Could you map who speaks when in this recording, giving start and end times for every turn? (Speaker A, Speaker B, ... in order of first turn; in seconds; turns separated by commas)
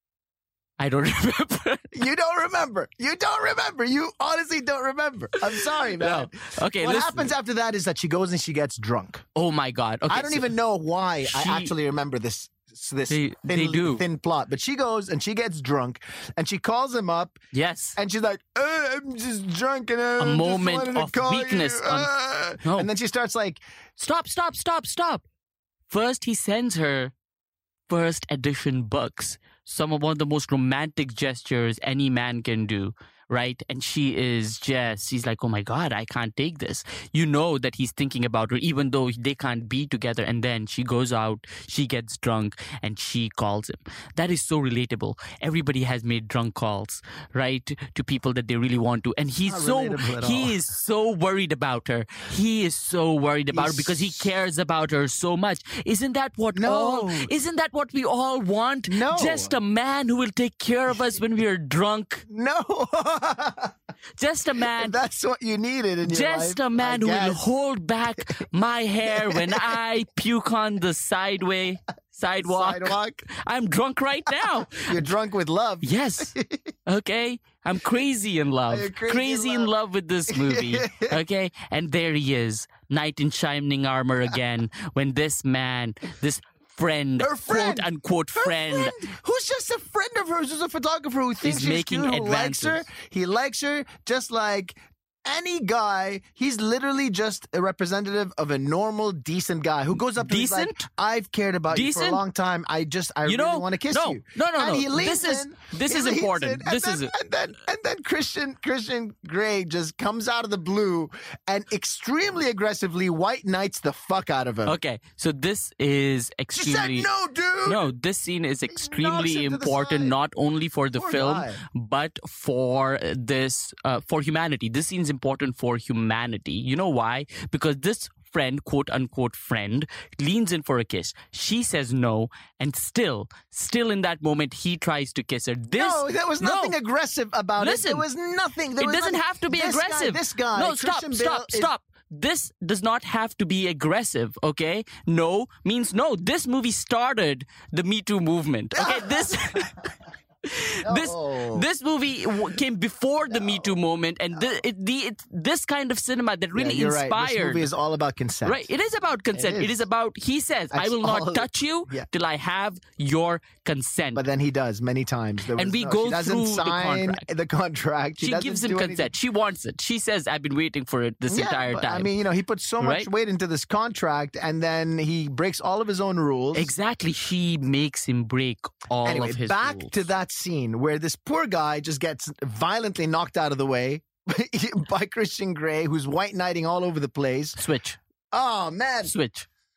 Speaker A: 0.8-1.9, Speaker B: 1.9-9.2, Speaker A: 5.5-7.3, Speaker A: 9.3-10.5, Speaker B: 10.1-17.4, Speaker A: 11.2-11.7, Speaker A: 13.1-14.0, Speaker A: 17.5-18.0, Speaker B: 17.9-23.6, Speaker A: 20.2-22.1, Speaker A: 22.6-22.9, Speaker A: 24.0-25.2, Speaker A: 25.9-27.1, Speaker A: 27.9-62.2, Speaker B: 49.5-50.5, Speaker B: 53.5-54.3, Speaker B: 56.5-57.3, Speaker B: 58.9-59.5, Speaker B: 62.3-63.7, Speaker A: 64.2-65.0, Speaker B: 64.6-67.5, Speaker A: 66.0-75.1, Speaker B: 69.0-69.8, Speaker B: 72.4-73.2, Speaker B: 74.7-76.7, Speaker A: 75.8-89.1, Speaker B: 78.7-79.7, Speaker B: 80.3-81.2, Speaker B: 87.2-114.8, Speaker A: 91.4-92.8, Speaker A: 100.2-100.8, Speaker A: 101.7-102.2, Speaker A: 103.2-107.1, Speaker A: 114.6-117.1, Speaker B: 116.5-117.9, Speaker A: 117.6-136.8, Speaker B: 118.7-120.1, Speaker B: 120.9-121.6, Speaker B: 135.7-141.7, Speaker A: 137.6-138.0, Speaker A: 138.8-149.9, Speaker B: 148.7-149.9, Speaker A: 150.4-157.7, Speaker B: 150.8-151.7, Speaker B: 153.3-153.7, Speaker B: 156.5-158.7, Speaker A: 158.4-164.2, Speaker B: 159.3-159.8, Speaker B: 160.7-162.1, Speaker B: 164.2-169.1, Speaker A: 165.5-167.3, Speaker A: 168.2-172.1, Speaker B: 171.3-176.7, Speaker A: 172.8-173.1, Speaker A: 176.5-180.0, Speaker B: 179.0-187.6, Speaker A: 187.6-188.0, Speaker B: 188.3-189.1, Speaker A: 189.0-189.5